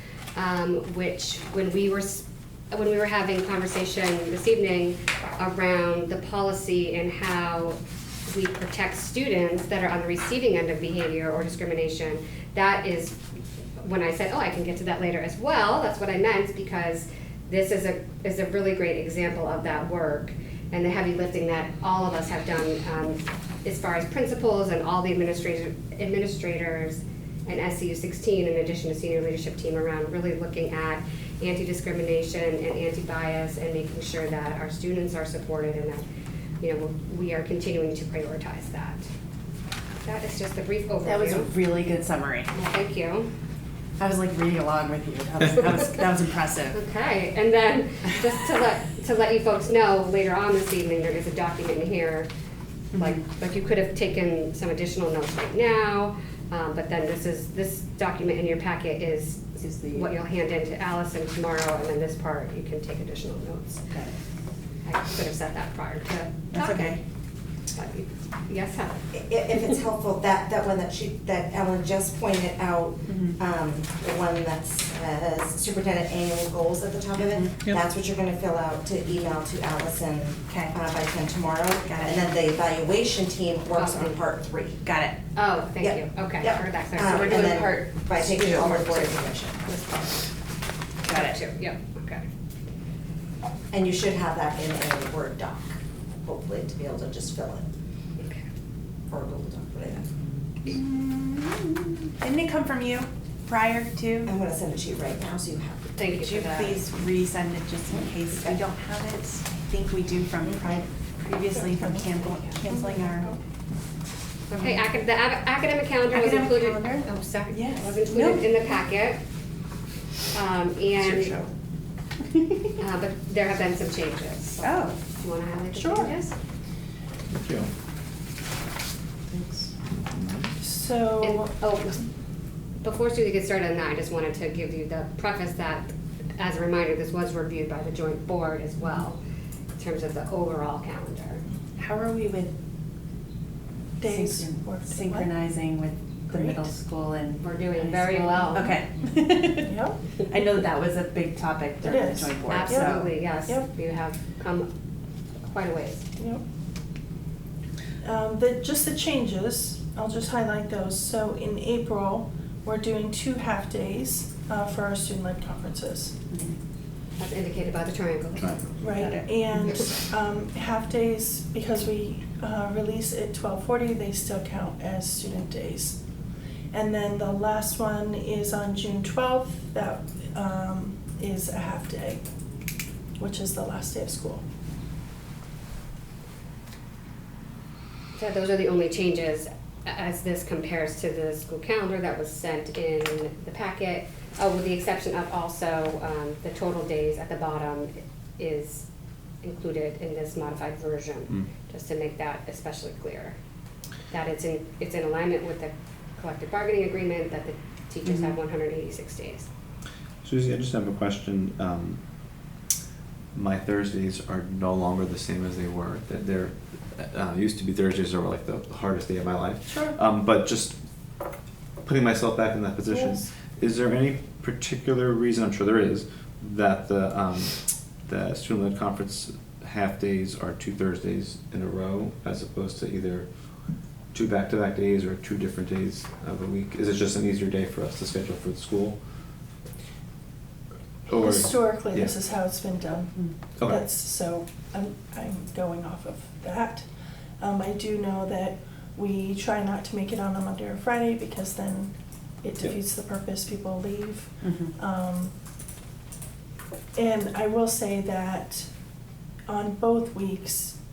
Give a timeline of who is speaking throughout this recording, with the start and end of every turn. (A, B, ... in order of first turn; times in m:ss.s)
0:00.4-0:13.2 A
0:13.8-0:36.0 A
0:36.6-0:39.1 A
0:40.0-0:41.5 A
0:41.0-0:42.5 B
0:42.5-0:43.3 A
0:44.0-0:46.8 B
0:46.7-0:52.3 A
0:53.0-1:03.8 A
0:59.6-1:00.1 B
1:03.9-1:04.2 B
1:04.8-1:07.0 A
1:06.5-1:07.0 B
1:07.7-1:09.0 A
1:09.1-1:24.8 C
1:13.1-1:13.4 B
1:17.2-1:17.7 B
1:20.5-1:20.8 B
1:21.9-1:22.2 B
1:23.7-1:24.2 A
1:24.8-1:25.2 B
1:25.4-1:27.6 A
1:25.8-1:29.7 C
1:27.0-1:29.0 B
1:28.6-1:30.3 A
1:31.0-1:31.4 B
1:31.1-1:32.3 A
1:33.7-1:37.7 C
1:38.2-1:38.4 A
1:39.1-1:40.1 C
1:40.7-1:44.3 B
1:44.2-1:46.0 C
1:46.0-1:46.8 A
1:46.2-1:53.3 B
1:51.5-1:53.4 D
1:54.5-1:59.2 A
1:56.1-1:58.5 B
2:00.3-2:01.4 A
2:01.0-2:01.5 B
2:02.8-2:06.4 A
2:04.6-2:05.0 B
2:05.7-2:06.2 D
2:07.3-2:07.7 E
2:09.3-2:09.7 B
2:09.9-2:10.5 E
2:10.6-2:11.5 D
2:11.2-2:12.1 A
2:12.8-2:19.2 A
2:19.8-2:21.4 A
2:21.8-2:22.5 B
2:24.0-2:25.3 D
2:24.0-2:29.8 B
2:26.3-2:26.7 D
2:27.4-2:28.8 A
2:29.6-2:30.0 D
2:30.3-2:33.1 B
2:31.8-2:33.7 D
2:32.5-2:34.7 A
2:35.4-2:36.0 A
2:36.2-2:36.4 D
2:38.0-2:46.2 D
2:46.3-2:46.6 B
2:47.2-2:48.6 A
2:48.8-2:56.0 D
2:48.9-2:49.7 B
2:56.7-3:02.2 D
3:03.2-3:04.4 D
3:08.2-3:18.9 A
3:19.4-3:23.4 A
3:24.1-3:29.5 A
3:30.2-3:32.0 E
3:33.4-3:40.8 E
3:39.7-3:40.0 D
3:41.8-3:53.3 E
3:42.9-3:43.3 D
3:54.1-3:59.0 E
4:01.1-4:02.1 E
4:01.1-4:06.9 D
4:03.6-4:03.8 E
4:07.4-4:11.9 D
4:12.4-4:15.3 D
4:14.4-4:14.7 B
4:17.0-4:18.7 D
4:19.5-4:20.8 D